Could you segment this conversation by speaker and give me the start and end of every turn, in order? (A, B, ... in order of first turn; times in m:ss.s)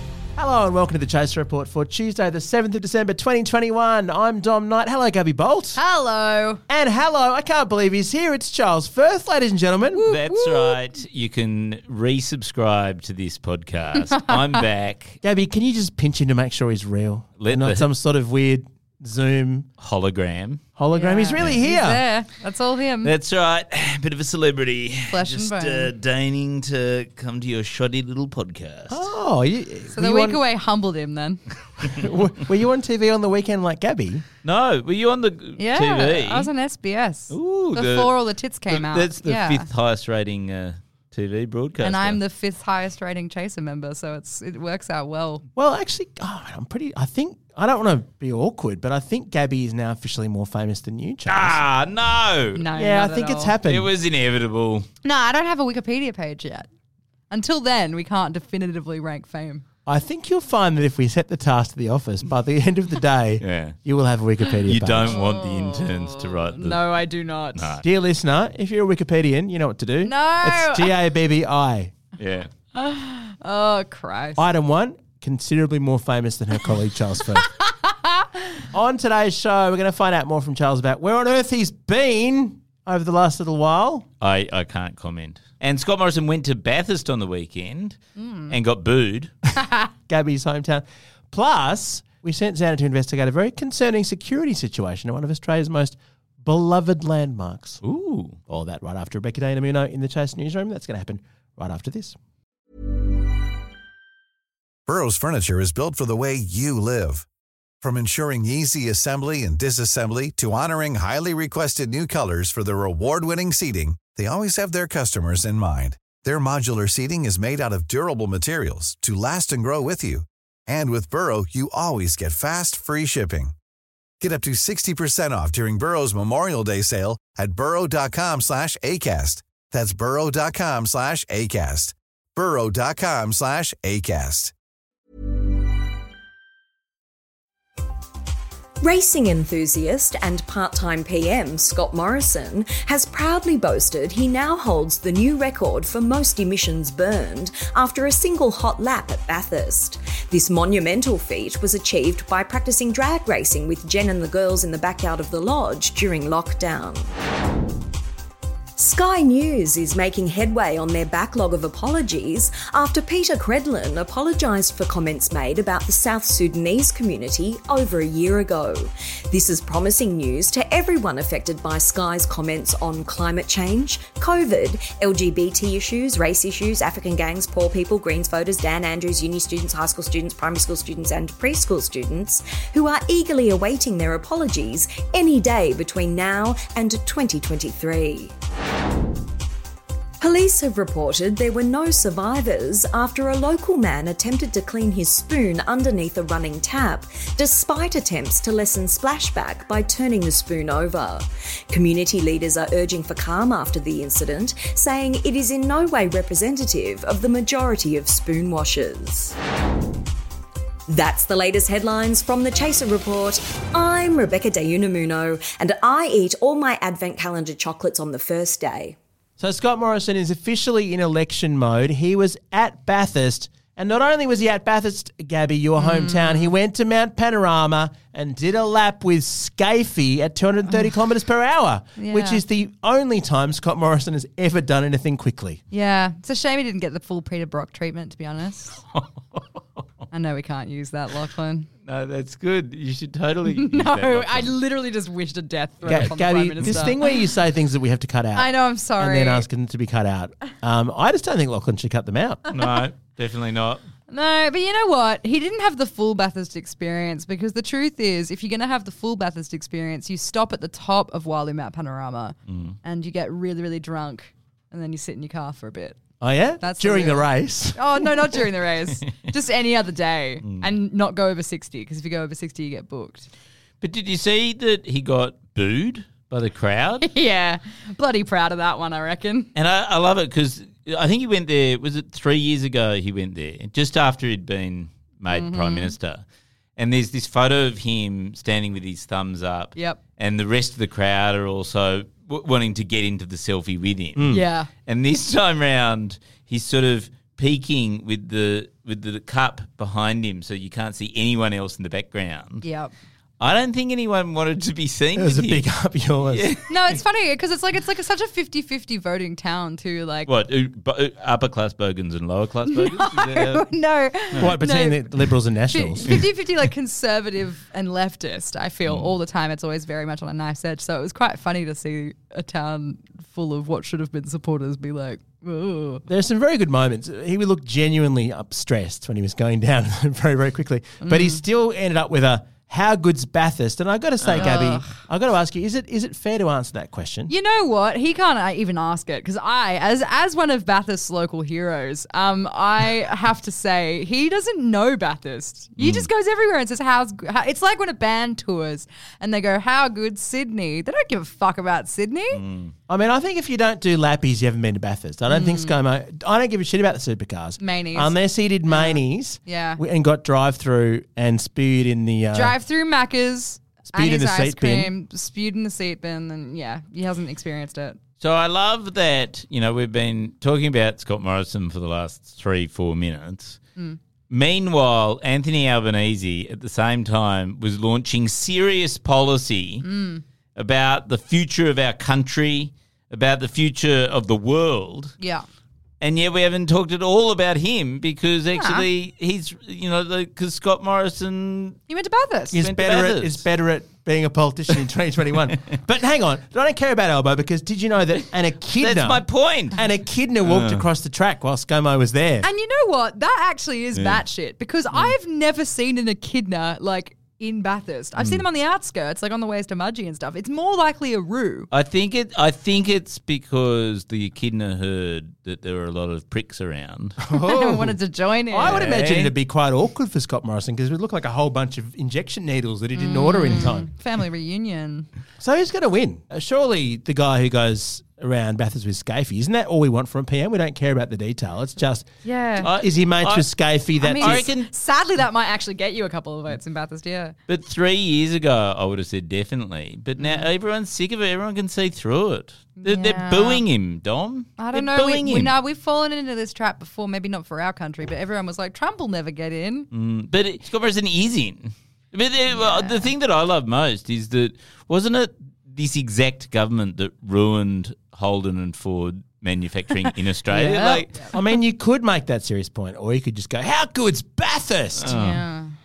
0:00.4-0:05.8 A
0:05.7-0:06.6 B
0:06.7-0:10.1 A
0:09.9-0:10.8 B
0:10.0-0:15.2 C
0:15.2-0:19.7 A
0:17.4-0:17.8 C
0:19.8-0:20.6 C
0:20.8-0:22.0 A
0:20.9-0:23.1 B
0:23.0-0:29.1 C
0:25.1-0:25.9 B
0:28.9-0:30.4 A
0:29.9-0:31.4 B
0:31.8-0:34.2 A
0:34.4-0:36.5 C
0:35.6-0:39.7 B
0:37.3-0:42.2 C
0:41.8-0:45.4 B
0:45.6-0:51.6 A
0:51.3-0:52.7 C
0:52.5-0:53.5 B
0:52.7-0:53.9 A
0:53.6-0:54.9 C
0:55.0-0:56.7 B
0:57.3-0:59.6 B
0:59.8-1:05.2 A
1:03.4-1:03.8 C
1:04.6-1:06.9 C
1:05.0-1:07.8 B
1:07.5-1:07.8 C
1:07.8-1:11.9 A
1:10.0-1:10.9 B
1:12.2-1:12.5 C
1:12.7-1:14.4 B
1:14.4-1:17.5 A
1:17.6-1:18.4 B
1:18.7-1:24.1 A
1:24.2-1:29.3 C
1:28.2-1:28.5 B
1:30.0-1:37.8 A
1:37.8-1:38.4 C
1:38.5-1:42.2 A
1:44.9-1:47.2 D
1:47.8-2:03.5 D
2:04.2-2:14.5 D
2:18.8-2:37.1 E
2:38.8-3:08.3 E
3:10.2-3:29.3 E
3:30.9-3:39.0 E
3:39.4-3:55.6 A
3:45.8-3:46.5 B
3:52.0-3:52.4 B
3:55.7-3:58.8 B
3:58.9-3:59.4 C
4:00.1-4:01.7 B
4:01.8-4:04.6 C
4:03.5-4:07.1 B
4:05.8-4:06.1 C
4:05.8-4:12.4 A
4:06.6-4:06.9 C
4:08.4-4:09.4 B
4:12.5-4:13.8 C
4:14.1-4:26.0 B
4:22.5-4:22.8 C
4:26.2-4:28.4 A
4:26.6-4:33.3 B
4:33.8-4:37.1 C
4:37.0-4:39.5 B
4:39.5-4:46.2 C
4:45.3-4:45.9 B
4:46.8-4:54.3 C
4:49.7-4:50.0 B
4:54.2-4:54.4 A
4:54.3-4:54.7 B
4:54.8-5:02.6 C
5:02.6-5:02.9 B
5:03.4-5:05.7 C
5:05.1-5:06.5 A
5:06.3-5:06.6 C
5:06.7-5:10.3 B
5:10.2-5:13.6 C
5:12.7-5:15.0 B
5:14.4-5:16.2 A
5:15.7-5:26.0 B
5:18.9-5:19.1 C
5:26.1-5:37.3 A
5:31.0-5:31.4 B
5:34.3-5:34.9 B
5:37.3-5:52.4 B
5:45.8-5:46.1 C
5:52.3-5:52.7 C
5:52.9-6:02.6 A
5:55.3-5:55.8 B
5:57.6-5:58.1 B
5:58.7-5:59.8 B
6:02.3-6:08.0 B
6:03.8-6:04.9 A
6:08.2-6:13.6 C
6:14.3-6:19.8 C
6:19.8-6:20.2 B
6:20.6-6:25.2 C
6:25.2-6:25.4 B
6:26.0-6:31.8 C
6:28.5-6:28.8 B
6:31.9-6:32.6 B
6:32.5-6:42.5 A
6:32.5-6:33.4 C
6:38.8-6:39.8 C
6:40.4-6:40.8 C
6:42.4-6:51.7 B
6:43.9-6:44.2 C
6:48.2-6:48.4 C
6:51.7-6:57.2 C
6:57.2-6:58.0 A
6:57.3-6:58.8 B
6:58.5-7:03.9 A
6:58.6-6:59.3 C
7:02.9-7:05.1 B
7:05.4-7:14.5 A
7:12.2-7:12.7 B
7:12.6-7:13.5 C
7:14.0-7:17.4 B
7:14.2-7:14.7 C
7:17.5-7:25.6 C
7:20.2-7:20.5 B
7:22.8-7:23.6 B
7:24.6-7:29.9 B
7:29.9-7:41.2 C
7:32.5-7:33.1 B
7:40.1-7:41.3 B
7:41.3-7:45.2 A
7:45.0-7:45.4 C
7:45.1-7:45.7 B